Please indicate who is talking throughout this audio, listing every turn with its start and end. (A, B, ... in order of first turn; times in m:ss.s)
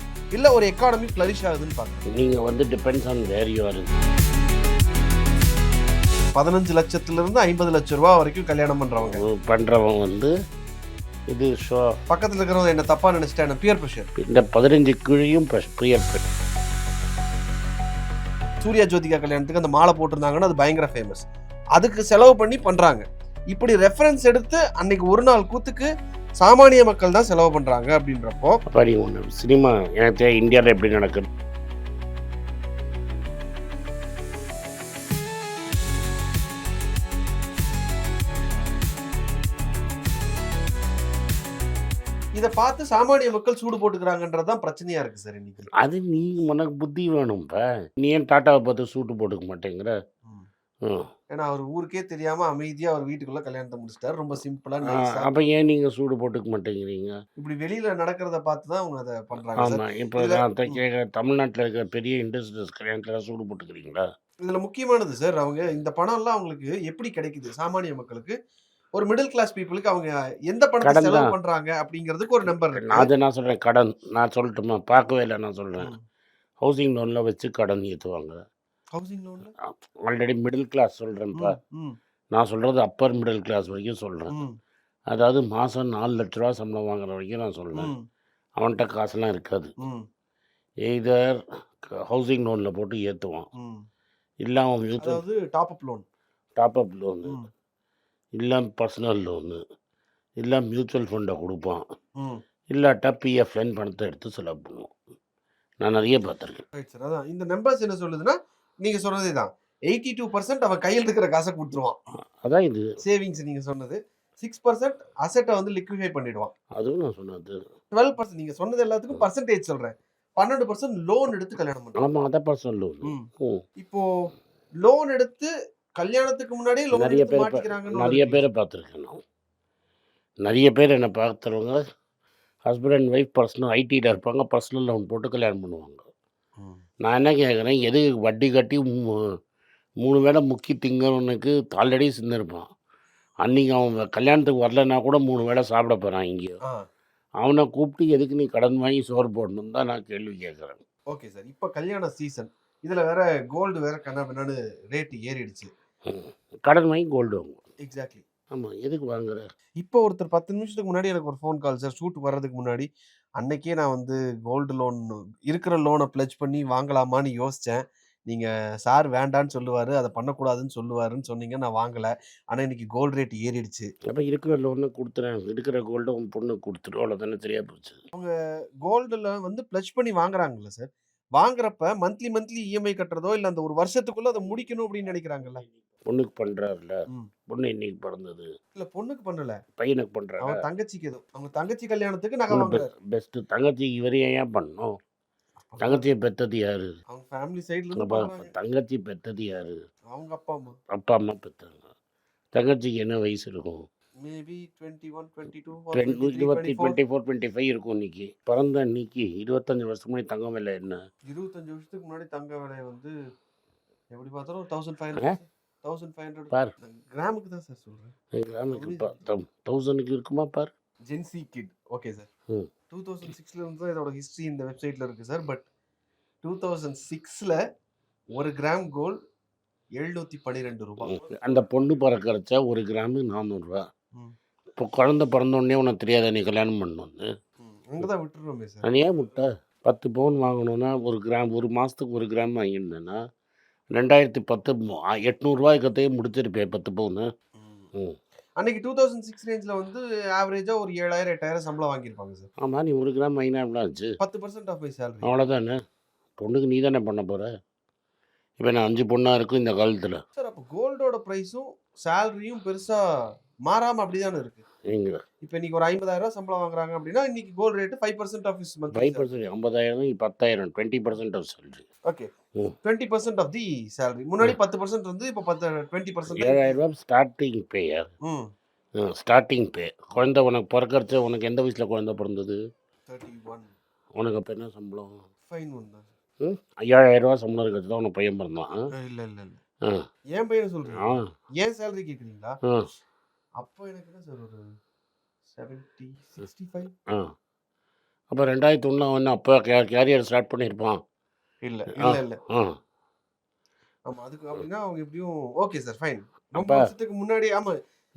0:00.3-0:02.0 A
0:02.2-0:04.0 B
0:06.4-0:09.2 A
0:09.1-0:10.3 B
0:11.3-0:11.9 B
0:12.1-0:14.1 A
0:14.2-0:16.2 B
0:18.6-0:21.2 A
0:21.8-0:25.9 A
0:26.4-0:28.6 A
0:28.7-0:31.2 B
0:42.3-0:45.7 A
0:45.8-0:49.9 B
0:51.3-0:55.3 A
0:54.9-0:57.2 B
0:57.4-1:00.8 A
0:59.6-1:04.0 B
1:04.4-1:08.4 A
1:09.0-1:13.1 A
1:10.8-1:11.3 B
1:12.7-1:15.9 B
1:16.6-1:18.4 B
1:18.9-1:19.5 A
1:19.7-1:21.5 B
1:21.3-1:22.0 A
1:22.3-1:24.4 B
1:25.1-1:27.9 B
1:27.7-1:28.0 A
1:28.6-1:29.7 B
1:30.9-1:33.5 B
1:33.6-1:33.8 A
1:34.4-1:35.2 B
1:35.0-1:36.0 A
1:36.6-1:37.4 B
1:38.4-1:39.6 B
1:40.4-1:41.8 B
1:42.7-1:44.9 B
1:45.8-1:46.6 B
1:46.8-1:52.0 A
1:52.4-1:52.9 B
1:53.0-1:56.5 A
1:56.8-1:57.6 B
1:57.9-2:02.0 A
2:02.0-2:03.6 B
2:03.8-2:04.0 A
2:04.8-2:08.4 A
2:07.0-2:09.2 B
2:10.4-2:11.8 B
2:12.7-2:16.0 B
2:17.0-2:18.9 B
2:20.0-2:22.6 B
2:23.4-2:26.5 B
2:27.4-2:30.8 B
2:31.1-2:35.7 A
2:36.1-2:37.6 B
2:37.8-2:38.2 A
2:38.5-2:39.4 B
2:39.8-2:42.9 A
2:43.4-2:53.9 A
2:54.1-2:58.0 B
2:58.8-3:05.6 A
3:06.0-3:07.0 B
3:07.5-3:08.5 B
3:08.7-3:09.6 A
3:09.8-3:10.6 B
3:10.4-3:12.9 A
3:12.5-3:14.9 B
3:15.7-3:16.1 A
3:15.8-3:16.9 B
3:17.1-3:18.5 A
3:18.0-3:19.8 B
3:20.1-3:20.8 A
3:20.9-3:21.9 B
3:22.5-3:23.8 B
3:24.2-3:27.0 A
3:25.9-3:31.0 B
3:31.3-3:33.1 A
3:34.1-3:38.1 A
3:38.4-3:40.7 B
3:38.7-3:39.3 A
3:41.1-3:42.3 A
3:42.9-3:45.7 A
3:46.4-3:47.6 A
3:48.3-3:49.2 A
3:50.0-3:51.2 A
3:51.0-3:53.8 B
3:54.8-3:57.2 B
3:57.6-3:58.9 A
3:58.8-4:03.2 B
4:03.9-4:07.3 B
4:07.6-4:07.9 A
4:08.6-4:12.5 A
4:12.6-4:14.1 B
4:14.2-4:15.3 A
4:15.2-4:15.8 B
4:16.4-4:17.5 B
4:18.6-4:20.2 B
4:20.4-4:23.0 A
4:23.7-4:24.6 A
4:24.9-4:25.2 B
4:25.4-4:29.3 A
4:28.9-4:31.8 B
4:32.8-4:36.8 A
4:36.3-4:38.1 B
4:39.0-4:42.6 B
4:43.1-4:43.7 A
4:44.1-4:45.2 B
4:45.5-4:46.1 A
4:46.4-4:48.7 B
4:48.9-4:49.6 A
4:50.3-4:52.6 A
4:53.6-4:54.6 A
4:55.5-4:56.9 A
4:58.3-5:01.0 B
5:01.6-5:02.4 A
5:02.0-5:02.7 B
5:04.1-5:07.8 A